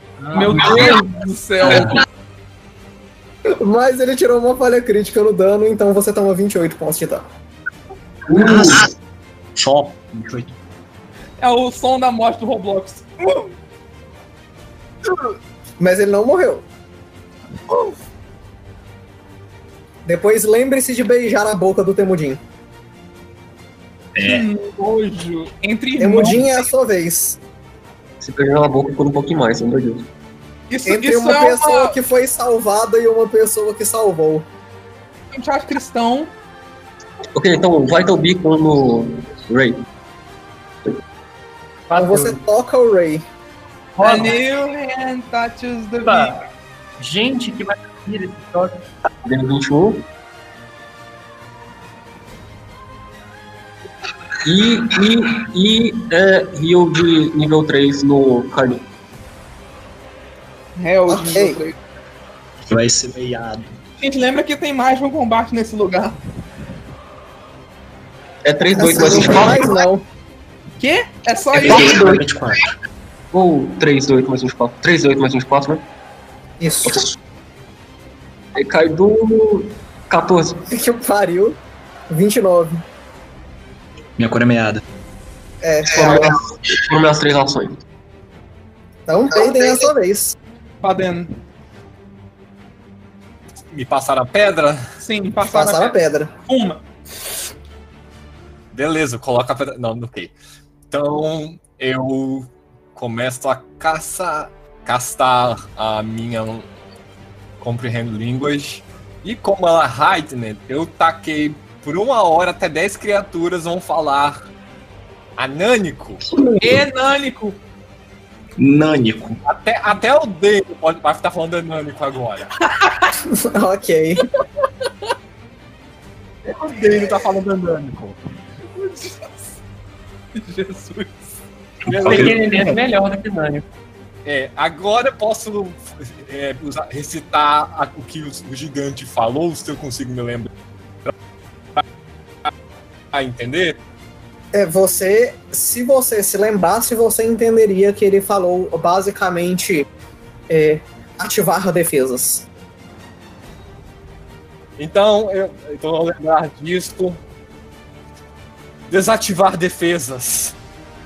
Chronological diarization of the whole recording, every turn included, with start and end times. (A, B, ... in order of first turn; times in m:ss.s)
0:00.2-0:01.0 A
0:00.3-0:02.0 B
0:01.6-0:02.0 C
0:03.6-0:07.2 D
0:08.3-0:08.9 C
0:08.3-0:08.8 E
0:09.6-0:10.5 C
0:11.4-0:13.4 B
0:15.8-0:16.6 D
0:20.0-0:22.4 D
0:24.2-0:24.5 C
0:24.2-0:26.6 B
0:26.0-0:27.4 D
0:28.2-0:30.1 E
0:30.7-0:32.0 B
0:30.9-0:34.5 D
0:35.3-0:36.3 B
0:37.4-0:39.8 E
0:41.9-0:42.4 A
0:42.0-0:43.2 D
0:44.0-0:44.4 A
0:44.0-0:46.4 B
0:46.0-0:46.4 A
0:47.0-0:48.8 A
0:49.2-0:50.1 E
0:54.4-0:58.8 E
1:00.8-1:01.8 B
1:01.1-1:01.6 D
1:02.7-1:03.7 C
1:04.0-1:06.2 B
1:08.4-1:09.8 E
1:08.8-1:10.1 D
1:10.8-1:12.0 B
1:11.5-1:12.6 C
1:11.6-1:12.2 E
1:13.3-1:15.8 E
1:16.6-1:17.0 D
1:16.8-1:17.1 E
1:18.6-1:20.6 E
1:20.7-1:21.6 D
1:22.1-1:22.8 D
1:24.2-1:24.8 C
1:25.6-1:26.3 D
1:25.9-1:27.8 E
1:29.1-1:30.4 D
1:30.8-1:31.4 B
1:33.7-1:34.8 F
1:35.0-1:36.8 B
1:35.4-1:36.3 D
1:38.7-1:40.3 F
1:40.9-1:46.7 F
1:47.6-1:54.4 F
1:55.4-1:56.2 F
1:56.6-1:57.6 B
1:58.6-1:59.4 C
1:59.4-2:02.5 F
2:03.2-2:04.3 D
2:06.6-2:08.2 F
2:08.7-2:09.6 B
2:10.3-2:11.4 B
2:11.9-2:12.7 F
2:11.9-2:12.4 C
2:11.9-2:13.6 A
2:14.2-2:20.5 F
2:23.1-2:23.8 F
2:24.5-2:29.9 D
2:30.5-2:32.5 D
2:34.8-2:37.2 F
2:38.9-2:40.6 F